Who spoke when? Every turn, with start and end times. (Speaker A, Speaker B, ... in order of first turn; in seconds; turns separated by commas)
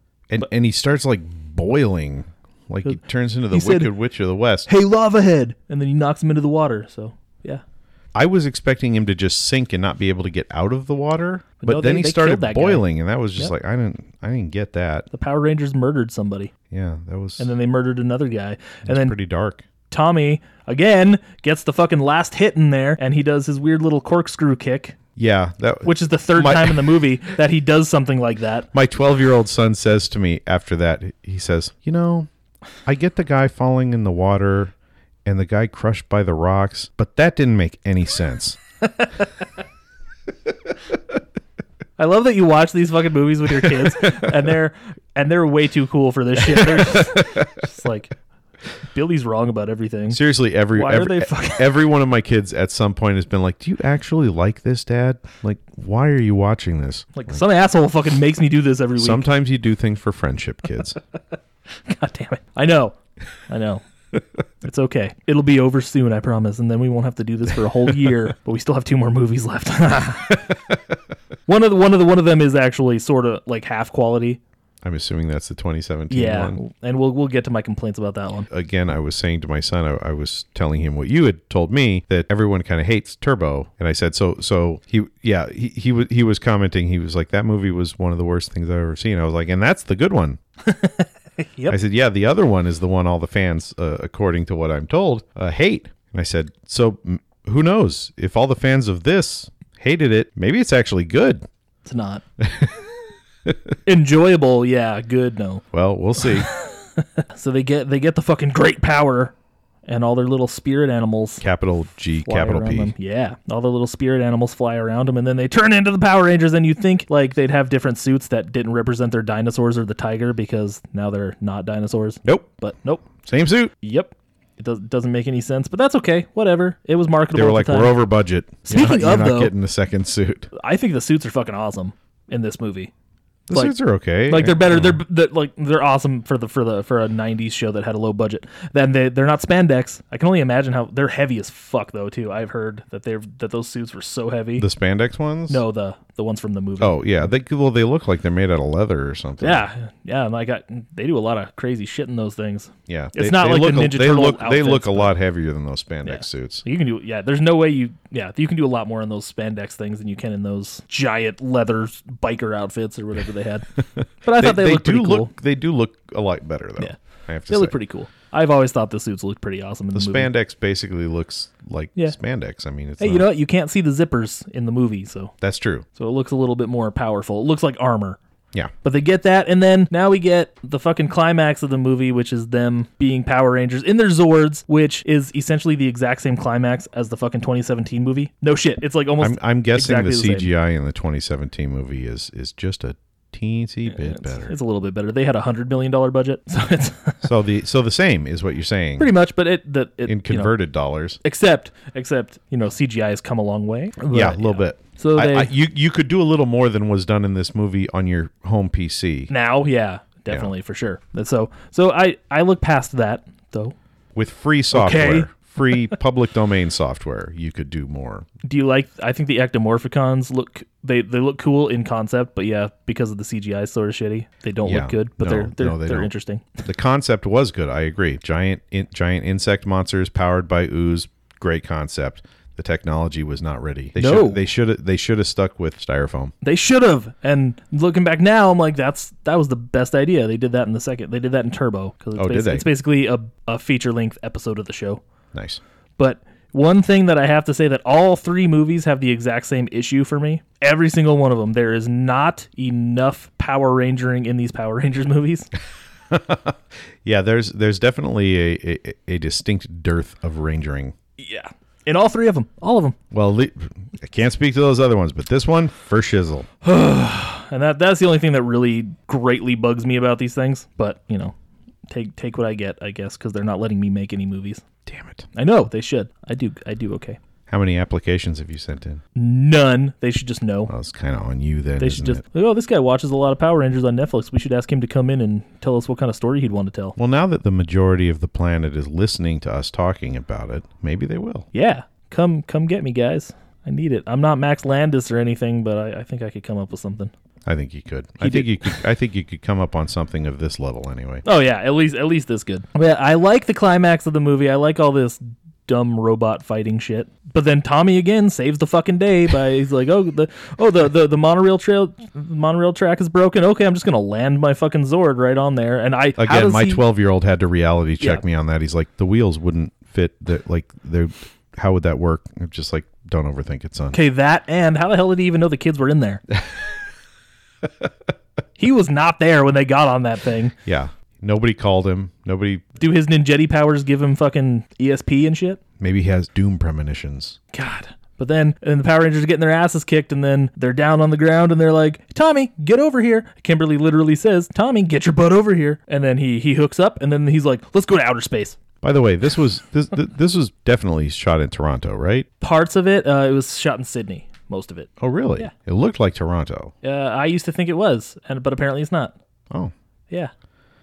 Speaker A: 0.3-4.7, Speaker B: 3.5-3.9, Speaker B: 4.7-7.6, Speaker A: 8.1-15.1, Speaker B: 11.6-12.8, Speaker B: 15.1-16.5, Speaker A: 16.7-17.5, Speaker B: 17.4-19.1, Speaker A: 18.8-19.6, Speaker B: 19.9-25.0, Speaker A: 25.1-27.0, Speaker B: 25.9-28.7, Speaker A: 28.7-32.3, Speaker A: 32.8-34.7, Speaker A: 35.2-38.6, Speaker B: 42.0-48.1, Speaker A: 46.5-47.4, Speaker B: 48.9-50.2, Speaker A: 50.1-57.4, Speaker B: 50.7-51.7, Speaker B: 57.1-59.2, Speaker A: 59.0-61.0, Speaker B: 61.8-63.0, Speaker B: 63.5-63.8, Speaker B: 64.6-70.6, Speaker B: 71.5-74.4, Speaker A: 74.8-76.6, Speaker B: 76.1-78.5, Speaker A: 78.5-90.4, Speaker B: 90.7-91.8, Speaker A: 91.7-101.5, Speaker B: 101.8-102.2, Speaker A: 102.4-102.7, Speaker B: 103.9-105.6, Speaker A: 105.7-106.5, Speaker B: 106.2-109.3, Speaker B: 109.9-111.4, Speaker A: 111.4-112.9, Speaker B: 112.2-123.1, Speaker A: 123.2-123.7, Speaker B: 123.8-128.1, Speaker A: 127.3-130.5, Speaker B: 128.7-129.5, Speaker B: 130.5-132.9, Speaker A: 133.5-135.0, Speaker B: 134.3-144.7, Speaker A: 144.6-145.6, Speaker B: 145.5-147.1, Speaker A: 146.8-149.6, Speaker B: 149.4-155.1, Speaker A: 152.9-156.6, Speaker B: 156.1-165.3, Speaker A: 163.9-167.7, Speaker B: 167.5-170.3, Speaker A: 169.9-173.3, Speaker B: 173.0-175.3, Speaker A: 175.4-175.8, Speaker B: 175.9-178.2, Speaker B: 178.8-190.5, Speaker A: 189.2-194.5, Speaker B: 193.9-197.3, Speaker A: 197.2-199.1, Speaker B: 199.0-200.5, Speaker A: 200.1-201.2, Speaker B: 201.2-205.5, Speaker A: 204.1-209.3, Speaker B: 209.3-213.7, Speaker A: 214.1-218.3, Speaker B: 214.7-215.3, Speaker B: 218.4-226.7, Speaker A: 224.6-226.1, Speaker A: 226.7-236.3, Speaker B: 233.9-234.4, Speaker B: 236.4-245.0, Speaker A: 242.2-242.7, Speaker A: 245.3-245.6, Speaker B: 246.0-255.5, Speaker A: 256.1-260.9, Speaker B: 261.2-262.9, Speaker A: 263.1-266.5, Speaker B: 266.6-271.3, Speaker B: 271.9-274.6, Speaker A: 274.9-275.3, Speaker B: 275.3-277.2, Speaker A: 277.5-279.0, Speaker B: 279.1-280.7, Speaker A: 280.7-282.2, Speaker B: 281.8-287.0, Speaker A: 287.0-291.5, Speaker B: 291.5-297.1, Speaker A: 297.4-301.2, Speaker B: 298.2-298.8, Speaker B: 301.2-316.8, Speaker A: 316.2-324.0, Speaker B: 323.9-326.2, Speaker B: 328.6-330.5, Speaker A: 330.6-332.6, Speaker B: 332.8-335.6, Speaker A: 335.8-337.4, Speaker B: 337.5-348.6, Speaker A: 348.8-352.3, Speaker B: 352.4-355.5, Speaker A: 355.0-356.7, Speaker B: 356.8-359.1